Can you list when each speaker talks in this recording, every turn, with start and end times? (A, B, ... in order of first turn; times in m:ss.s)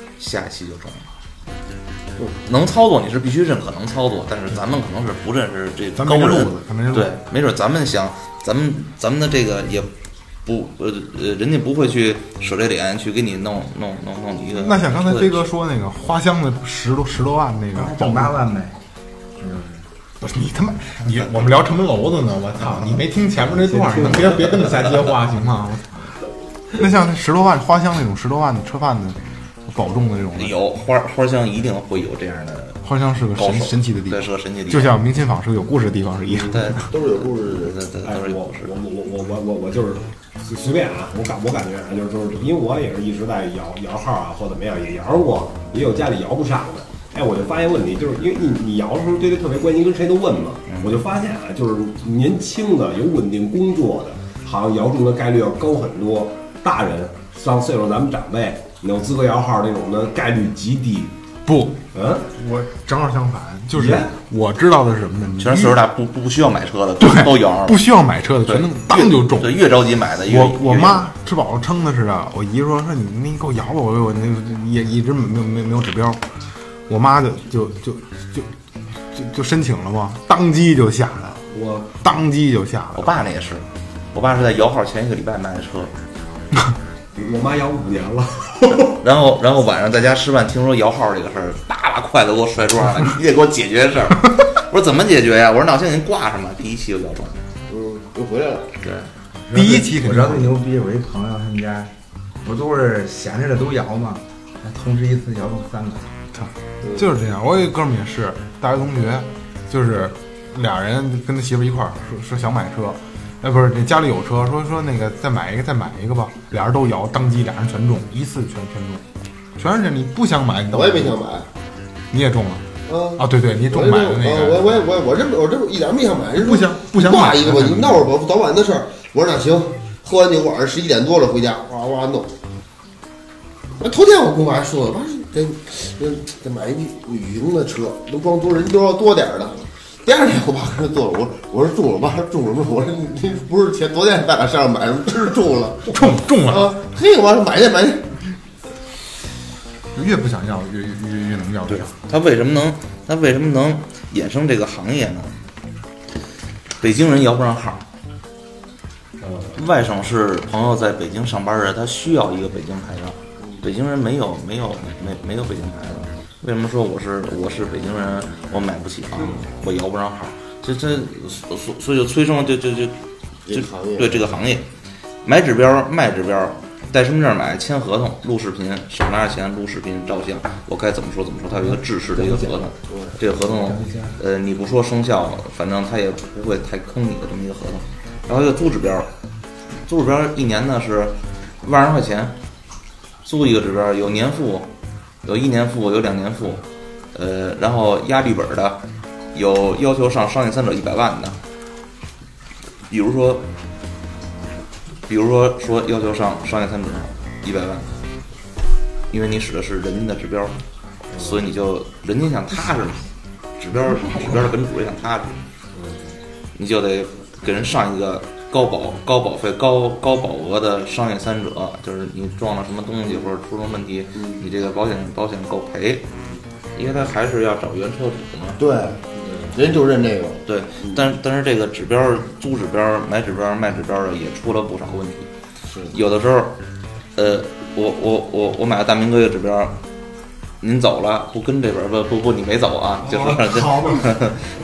0:00.2-0:01.0 A
0:02.4-0:09.9 A
0:06.0-0:07.2 B
0:10.4-0:15.5 A
0:14.5-0:18.4 B
0:17.7-0:18.8 C
0:19.4-0:19.9 C
0:20.2-0:26.1 B
0:23.5-0:24.7 D
0:26.7-0:30.6 B
0:30.4-0:32.8 A
0:32.8-0:36.9 B
0:33.3-0:35.0 A
0:36.5-0:36.9 A
0:36.8-0:37.8 E
0:37.4-0:38.7 A
0:38.0-1:01.1 D
0:50.7-0:51.0 A
1:01.4-1:05.8 B
1:01.9-1:02.3 D
1:03.7-1:04.1 D
1:05.4-1:07.8 A
1:07.0-1:09.7 B
1:08.4-1:11.1 A
1:10.2-1:16.2 B
1:16.9-1:21.4 B
1:21.5-1:21.9 D
1:22.0-1:23.1 B
1:22.9-1:25.9 A
1:27.1-1:29.0 D
1:28.8-1:37.4 A
1:37.7-1:38.7 E
1:38.8-1:39.1 A
1:39.3-1:46.1 C
1:39.5-1:40.6 B
1:46.3-1:59.0 B
1:46.8-1:47.1 E
1:59.6-2:01.2 B
2:00.7-2:01.5 E
2:02.1-2:04.7 B
2:02.9-2:12.3 E
2:06.4-2:08.1 B
2:13.8-2:28.1 E
2:25.9-2:26.8 B
2:29.9-2:32.0 B
2:31.7-2:35.3 A
2:36.8-2:37.8 A
2:39.2-2:39.6 D
2:39.6-2:53.0 A
2:49.2-2:49.4 D
2:53.5-2:54.2 E
2:53.5-2:54.7 A
2:55.2-3:09.1 A
3:01.5-3:02.7 C
3:02.9-3:03.2 E
3:03.3-3:04.2 C
3:09.8-3:12.4 A
3:13.2-3:14.7 A
3:15.2-3:21.4 A
3:22.9-3:23.5 A
3:25.1-3:27.9 A
3:29.1-3:30.6 A
3:31.1-3:31.4 D
3:31.2-3:33.0 A
3:33.6-3:35.4 A
3:35.7-3:36.2 D
3:36.5-3:46.1 A
3:44.2-3:44.4 E
3:46.1-3:46.4 E
3:46.7-3:48.6 A
3:48.6-3:51.0 E
3:50.4-3:55.3 A
3:55.6-3:56.0 E
3:55.9-3:56.6 A
3:57.2-3:59.8 A
4:00.6-4:04.4 A
4:03.0-4:04.2 D